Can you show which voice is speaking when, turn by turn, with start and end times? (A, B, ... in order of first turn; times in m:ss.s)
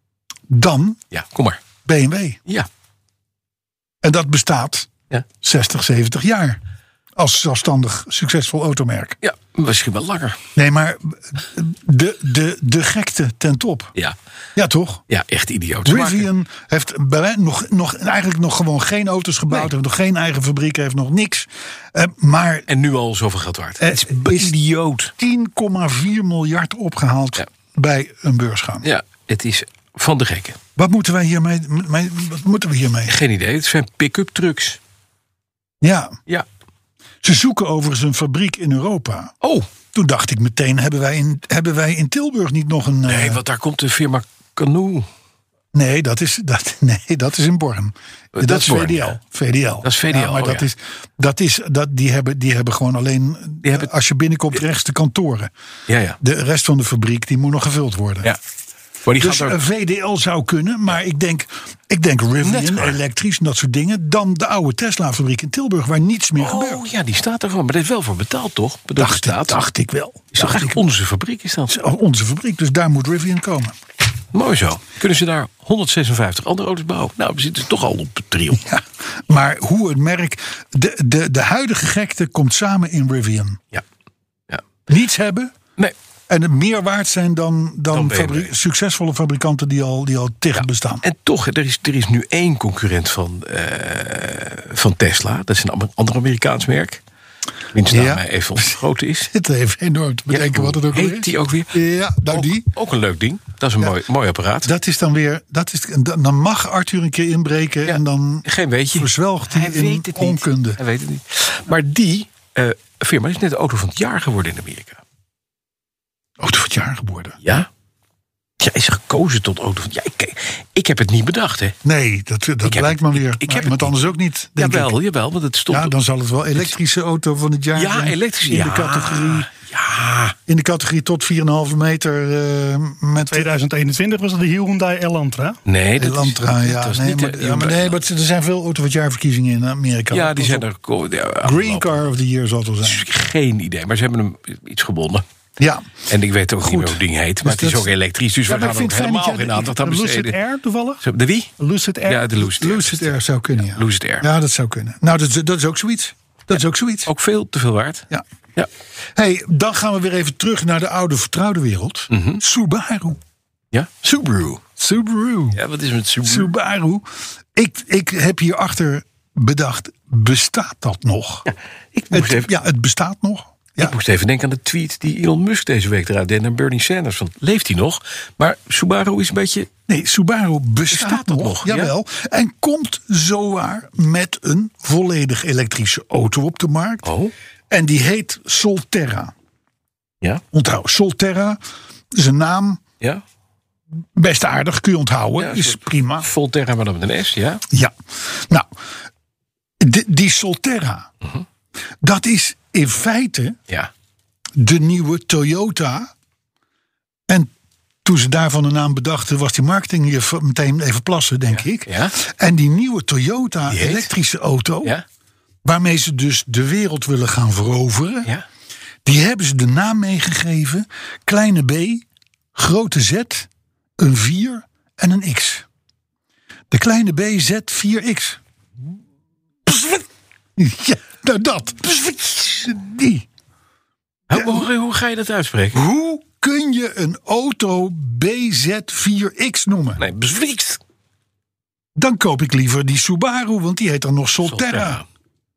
0:00.5-0:01.0 A
0:01.1-0:01.6 B
0:01.8-0:02.4 A
0:04.0-0:04.9 A
0:05.4-0:06.6 A
0:07.2-0:09.2 A
0:09.2-0:10.4 B
0:10.6-0:13.9 A
0:14.6-0:15.0 A
0:15.1-0:16.3 B
0:15.8-0:22.7 A
0:22.7-0:25.1 B
0:23.8-0:24.5 A
0:25.2-0:28.9 A
0:28.8-0:30.6 B
0:30.8-0:33.1 A
0:33.1-0:34.8 B
0:35.8-0:36.2 A
0:37.2-0:39.3 A
0:39.4-0:39.7 B
0:39.9-0:43.4 A
0:43.0-0:45.1 B
0:45.7-0:55.5 A
0:48.3-0:49.2 B
0:49.8-0:50.7 B
0:53.6-0:53.9 B
0:55.9-0:56.2 B
0:56.2-0:58.3 A
0:59.0-0:59.6 B
0:59.2-1:06.8 A
1:02.4-1:03.0 B
1:06.4-1:09.6 B
1:09.0-1:10.8 A
1:10.3-1:11.7 B
1:11.7-1:13.7 A
1:14.3-1:18.6 B
1:18.6-1:23.6 A
1:24.9-1:25.5 A
1:26.3-1:31.0 A
1:27.9-1:28.5 B
1:30.5-1:37.0 B
1:37.7-1:39.3 B
1:37.9-1:42.7 A
1:40.3-1:44.7 B
1:44.6-1:50.8 A
1:47.8-1:55.0 B
1:56.4-1:57.4 A
1:57.4-1:57.7 B
1:58.6-2:01.8 B
2:01.8-2:04.9 A
2:02.6-2:05.9 B
2:05.7-2:09.5 A
2:07.7-2:10.4 B
2:10.5-2:13.5 A
2:13.3-2:15.6 C
2:15.6-2:18.0 B
2:16.0-2:20.6 A
2:20.1-2:22.1 B
2:21.4-2:23.0 A
2:22.8-2:25.2 B
2:25.6-2:25.9 A
2:26.1-2:30.4 B
2:26.6-2:27.9 A
2:28.4-2:29.8 A
2:29.8-2:31.0 C
2:31.0-2:31.5 B
2:31.6-2:32.2 C
2:32.0-2:34.3 B
2:32.3-2:37.1 A
2:37.0-2:38.7 B
2:39.2-2:43.2 A
2:42.1-2:42.4 B
2:43.7-2:44.6 B
2:44.8-2:45.6 A
2:45.5-2:46.5 B
2:46.2-2:51.4 A
2:51.4-2:52.5 B
2:52.1-2:53.9 A
2:53.8-2:59.7 B
2:59.9-3:07.1 A
3:00.9-3:01.9 B
3:07.0-3:07.3 B
3:07.7-3:09.3 A
3:10.5-3:11.6 A
3:12.1-3:12.8 A
3:14.1-3:16.3 A
3:15.4-3:17.6 B
3:17.7-3:18.7 A
3:19.8-3:21.1 A
3:22.0-3:23.6 A
3:24.6-3:26.1 A
3:28.0-3:35.0 A
3:31.5-3:32.1 B
3:33.7-3:34.1 B
3:35.6-3:38.3 A
3:39.0-3:43.5 A
3:44.0-3:45.6 A
3:46.7-3:48.4 A
3:49.7-3:50.0 A
3:50.6-3:53.3 A
3:52.1-3:52.3 B
3:54.3-3:55.8 B
3:54.3-3:54.6 A
3:55.7-4:00.0 A
4:00.0-4:00.8 B
4:02.0-4:05.0 A
4:04.4-4:05.0 B